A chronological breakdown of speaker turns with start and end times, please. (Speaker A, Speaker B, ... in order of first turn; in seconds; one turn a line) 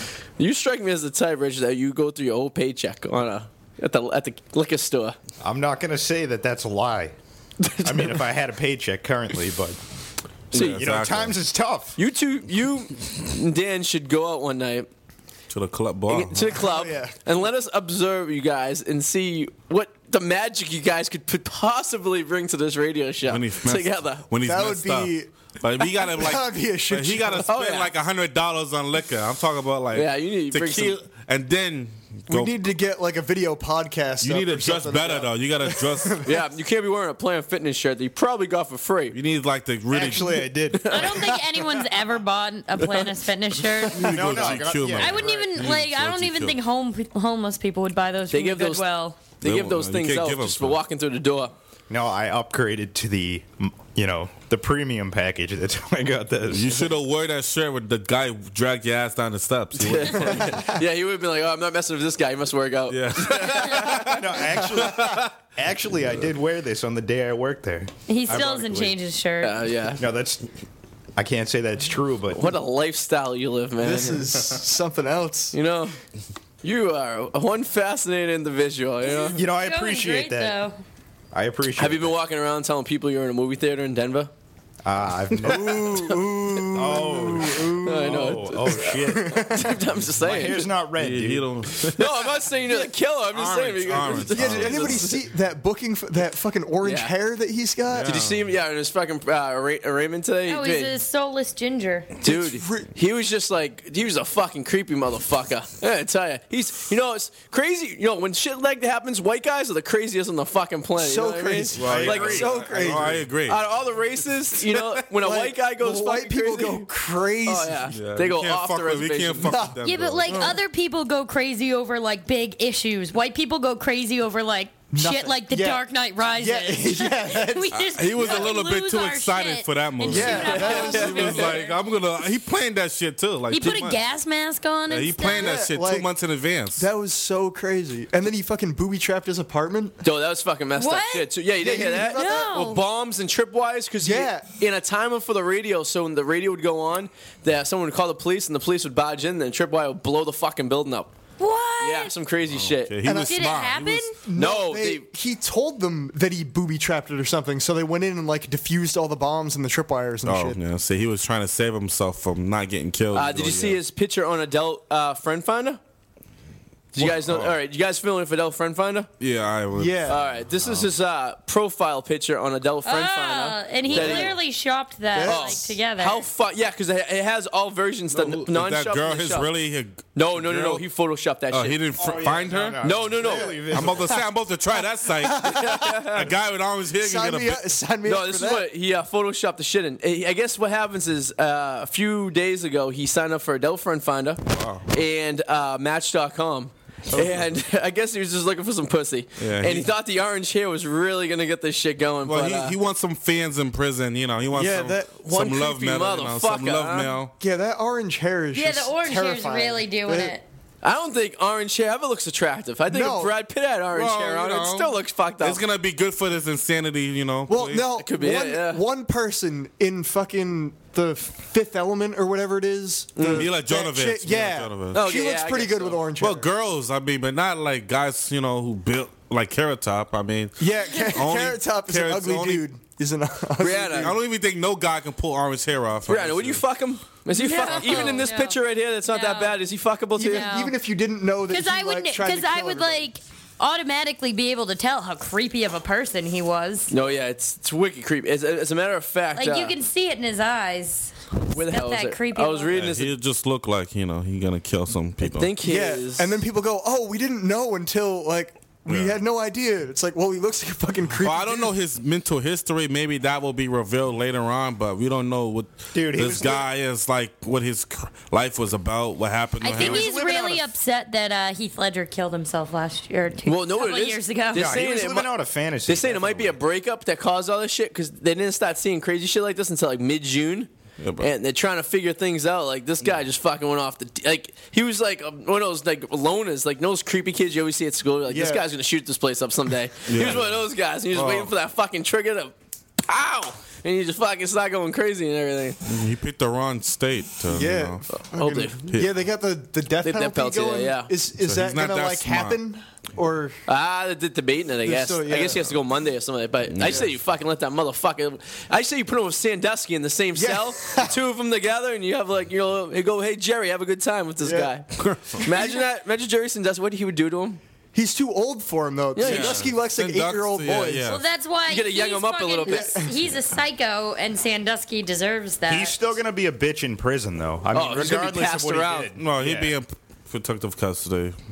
Speaker A: 0.4-5.2
Speaker B: 5.4-7.1
Speaker A: 7.6-8.2
Speaker B: 7.8-9.8
Speaker A: 10.5-10.8
Speaker C: 10.5-11.4
Speaker B: 10.5-12.0
Speaker A: 12.0-14.9
Speaker C: 15.5-16.6
Speaker A: 16.1-24.2
Speaker D: 16.5-17.1
Speaker C: 23.3-32.6
Speaker D: 24.4-25.3
Speaker D: 26.0-27.5
Speaker A: 27.4-27.9
Speaker A: 29.9-31.0
Speaker D: 32.3-36.4
Speaker C: 34.2-36.2
Speaker A: 36.2-39.1
Speaker C: 39.1-40.5
Speaker B: 39.9-41.4
Speaker A: 40.7-41.3
Speaker E: 40.9-49.2
Speaker A: 42.8-43.1
Speaker C: 43.9-46.6
Speaker B: 44.0-45.7
Speaker A: 48.3-48.9
Speaker A: 49.4-51.5
Speaker C: 49.4-50.8
Speaker B: 51.9-56.9
Speaker C: 56.5-60.7
Speaker A: 59.8-64.1
Speaker C: 62.9-65.2
Speaker B: 63.9-69.0
Speaker E: 68.1-69.6
Speaker A: 69.4-70.0
Speaker B: 70.0-70.5
Speaker B: 71.2-72.5
Speaker A: 72.3-74.3
Speaker D: 73.8-75.5
Speaker A: 75.5-76.0
Speaker A: 76.6-79.4
Speaker E: 79.1-80.8
Speaker B: 79.3-80.6
Speaker B: 81.3-82.1
Speaker A: 81.8-84.3
Speaker B: 84.8-89.7
Speaker D: 85.4-89.8
Speaker A: 87.8-90.7
Speaker B: 90.2-91.7
Speaker C: 91.0-92.0
Speaker A: 91.9-95.2
Speaker C: 93.3-95.1
Speaker D: 94.3-98.2
Speaker A: 96.8-97.1
Speaker C: 97.9-98.5
Speaker A: 98.0-100.9
Speaker E: 100.5-102.2
Speaker A: 102.2-112.6
Speaker D: 102.2-102.9
Speaker D: 111.0-113.3
Speaker C: 111.8-113.6
Speaker B: 111.8-113.0
Speaker A: 113.5-116.9
Speaker D: 115.1-117.9
Speaker A: 117.4-119.5
Speaker C: 117.9-120.6
Speaker D: 119.4-119.8
Speaker E: 119.8-131.7
Speaker D: 124.9-128.5
Speaker C: 127.7-134.0
Speaker D: 130.0-131.5
Speaker A: 130.3-131.4
Speaker E: 133.5-135.6
Speaker C: 134.9-136.9
Speaker D: 135.3-136.1
Speaker D: 136.8-140.0
Speaker A: 140.0-151.1
Speaker E: 140.8-141.3
Speaker D: 141.6-142.6
Speaker E: 142.0-142.8
Speaker D: 144.0-144.4
Speaker E: 151.4-152.1
Speaker A: 151.8-152.9
Speaker C: 152.5-154.1
Speaker D: 153.0-153.4
Speaker E: 153.1-154.2
Speaker D: 154.2-160.6
Speaker A: 154.3-155.0
Speaker C: 160.2-163.8
Speaker A: 163.1-165.8
Speaker A: 166.9-169.1
Speaker C: 166.9-167.5
Speaker C: 169.2-170.9
Speaker D: 169.8-170.2
Speaker A: 170.1-174.4
Speaker E: 172.8-176.2
Speaker C: 173.8-174.3
Speaker D: 175.1-175.7
Speaker A: 175.2-179.5
Speaker C: 178.1-180.8
Speaker A: 180.1-181.8
Speaker C: 181.5-182.9
Speaker B: 182.0-184.2
Speaker A: 182.8-183.7
Speaker D: 183.2-184.1
Speaker C: 183.7-187.8
Speaker D: 185.2-186.3
Speaker A: 185.5-186.2
Speaker D: 187.0-188.7
Speaker A: 188.0-202.8
Speaker C: 194.5-194.8
Speaker C: 197.1-197.5
Speaker C: 199.4-199.9
Speaker C: 202.2-207.3
Speaker D: 204.5-205.1
Speaker A: 205.2-207.1
Speaker D: 207.4-210.3
Speaker E: 208.5-210.4
Speaker A: 210.8-215.6
Speaker D: 212.9-213.3
Speaker C: 213.9-217.9
Speaker D: 217.5-226.5
Speaker A: 218.0-218.8
Speaker A: 223.2-223.5
Speaker C: 223.3-225.0
Speaker A: 224.9-226.0
Speaker C: 226.2-232.7
Speaker D: 230.6-234.2
Speaker A: 233.6-234.1
Speaker C: 234.0-236.6
Speaker A: 236.1-240.5
Speaker E: 237.3-239.6
Speaker C: 237.7-238.2
Speaker D: 240.2-243.0
Speaker E: 240.2-240.7
Speaker E: 241.5-246.9
Speaker A: 246.9-249.8
Speaker E: 249.3-252.7
Speaker A: 251.5-253.1
Speaker C: 252.7-255.5
Speaker A: 255.2-256.3
Speaker D: 255.6-261.7
Speaker C: 258.9-259.2
Speaker C: 261.1-270.1
Speaker B: 265.9-266.7
Speaker E: 269.6-274.8
Speaker B: 269.7-270.6
Speaker A: 273.4-275.3
Speaker B: 274.5-276.6
Speaker A: 275.9-292.5
Speaker C: 281.0-281.3
Speaker D: 288.3-288.6
Speaker C: 290.1-291.5
Speaker A: 293.1-295.8
Speaker C: 295.8-298.1
Speaker D: 297.5-303.6
Speaker A: 298.1-298.8
Speaker C: 298.9-299.2
Speaker A: 300.0-301.1
Speaker C: 301.4-302.6
Speaker A: 303.7-317.6
Speaker D: 304.8-305.7
Speaker C: 306.7-307.1
Speaker D: 310.3-311.1
Speaker D: 314.4-314.7
Speaker C: 314.9-315.4
Speaker D: 317.9-321.1
Speaker A: 319.1-319.7
Speaker C: 319.2-321.2
Speaker E: 321.1-325.9
Speaker A: 321.7-323.0
Speaker D: 322.7-323.1
Speaker B: 325.7-329.7
Speaker A: 327.7-329.1
Speaker C: 329.2-331.4